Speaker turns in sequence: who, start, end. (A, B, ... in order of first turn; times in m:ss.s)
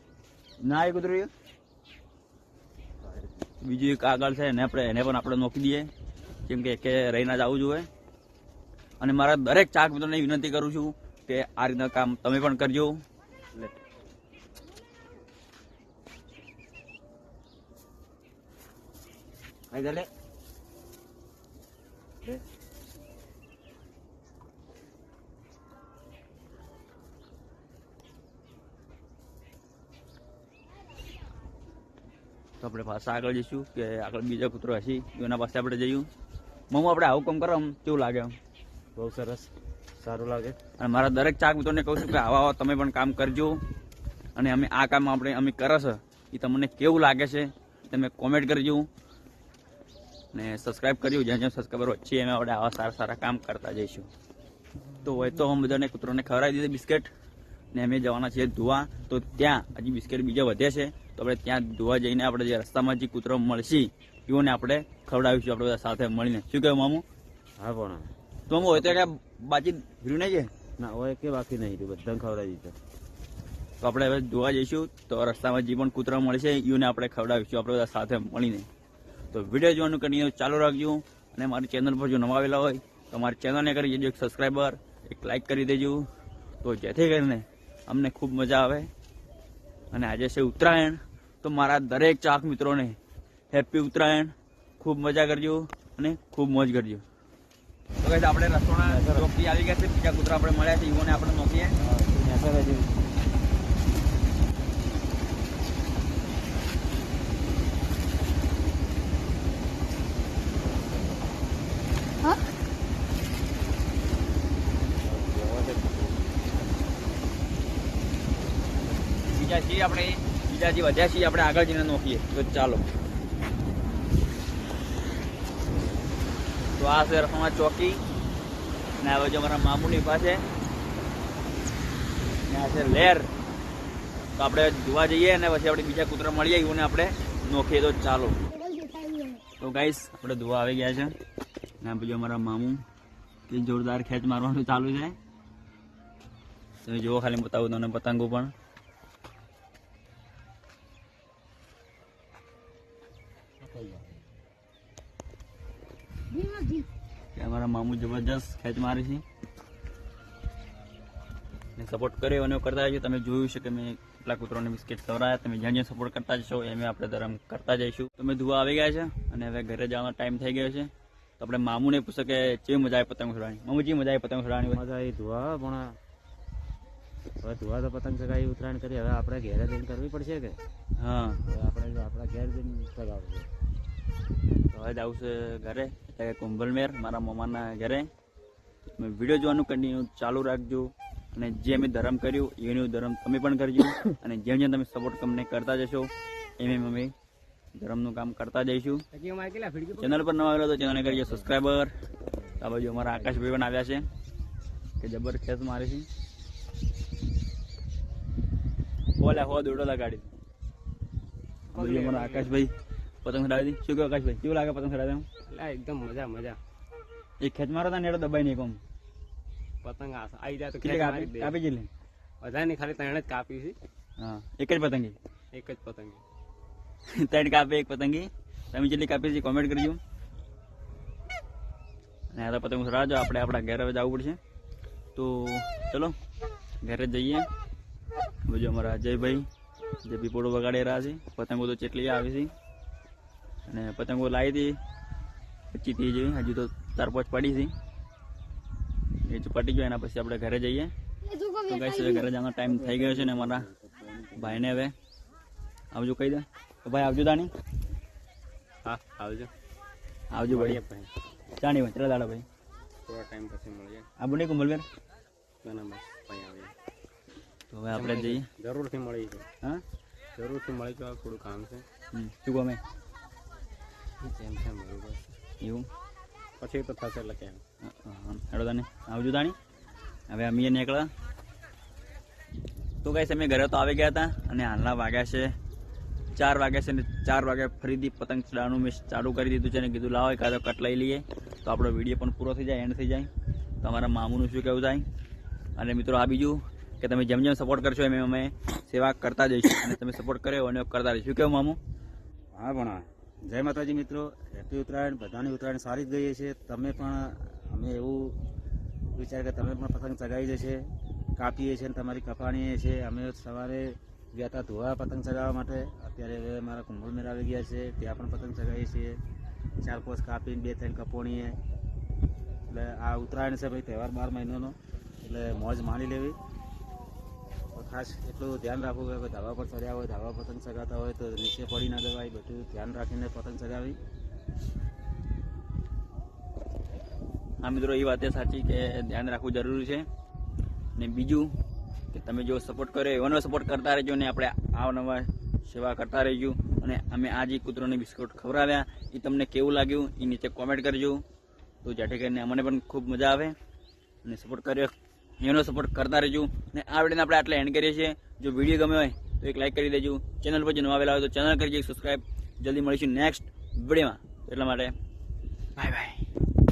0:00.6-0:01.3 A
0:03.0-0:03.4 B
0:03.6-0:05.9 A
0:06.5-0:07.9 A
0:09.0-0:13.0 A
0:19.7-0:20.1 B
0:32.6-0:36.1 A
0:36.7-0:38.4 A
0:39.0-0:40.6 B
0:40.8-0:43.6 A
0:44.4-0:48.9 A
0:50.3-0:54.1 A
0:55.0-0:57.1 A
0:57.7-1:07.0 A
1:07.6-1:08.1 B
1:08.5-1:10.5 A
1:08.7-1:09.0 B
1:10.8-1:12.8 B
1:13.8-1:18.7 A
1:19.3-1:26.1 A
1:26.6-1:28.9 A
1:29.9-1:33.0 A
1:33.5-1:37.0 A
1:38.0-1:41.8 A
1:38.8-1:39.3 B
1:41.8-1:43.0 B
1:50.5-1:51.3 B
1:55.0-1:56.3 B
1:59.3-2:02.8 A
2:06.8-2:08.0 A
2:09.0-2:10.4 A
2:12.5-2:13.3 A
2:14.4-2:18.4 A
2:18.5-2:19.4 C
2:19.6-2:21.1 A
2:21.8-2:22.8 A
2:23.5-2:25.2 A
2:26.8-2:28.5 A
2:33.7-2:34.1 B
2:36.3-2:36.9 C
2:37.3-2:39.2 A
2:41.8-2:54.8 A
2:54.7-2:55.9 B
2:57.4-3:00.6 B
3:01.0-3:01.4 A
3:01.4-3:03.5 B
3:04.6-3:08.1 A
3:09.0-3:17.1 A
3:17.8-3:19.0 A
3:19.1-3:20.4 D
3:20.0-3:21.9 A
3:22.6-3:24.1 A
3:25.0-3:26.1 A
3:29.2-3:30.3 A
3:31.7-3:32.6 D
3:31.7-3:35.3 A
3:35.4-3:36.6 D
3:37.4-3:38.8 A
3:39.8-3:41.6 D
3:40.8-3:41.9 A
3:42.4-3:43.8 D
3:44.2-3:45.2 A
3:45.5-3:46.2 D
3:47.1-3:50.0 A
3:52.3-3:54.4 A
3:55.1-3:56.2 A
3:56.8-3:57.5 A
3:58.4-3:59.5 A
4:00.0-4:02.5 A
4:03.7-4:04.8 A
4:05.7-4:07.7 A
4:09.2-4:10.9 A
4:11.2-4:12.3 C
4:11.7-4:13.7 A
4:12.7-4:14.4 B
4:14.4-4:14.9 A
4:15.9-4:17.5 A
4:18.8-4:19.5 D
4:20.3-4:20.8 A
4:20.5-4:21.1 D
4:21.6-4:22.4 A
4:23.1-4:24.1 D
4:24.2-4:24.8 A
4:25.6-4:26.8 D
4:27.7-4:28.5 A
4:27.9-4:29.4 D
4:30.4-4:31.9 D
4:32.1-4:32.8 A
4:34.2-4:35.2 D
4:35.6-4:35.9 A
4:36.6-4:37.6 D
4:37.8-4:39.6 A
4:40.3-4:41.1 A
4:43.0-4:45.5 A
4:46.3-4:53.3 A
4:53.8-4:55.0 A
4:55.8-5:01.8 A
5:02.5-5:08.4 B
5:09.2-5:10.8 B
5:11.4-5:19.2 B
5:19.8-5:21.6 B
5:22.7-5:26.4 B
5:27.8-5:34.0 B
5:37.6-5:40.1 A
5:41.0-5:41.5 A
5:42.1-5:51.2 A
5:51.8-5:53.6 A
5:54.2-6:04.9 A
6:05.8-6:06.2 A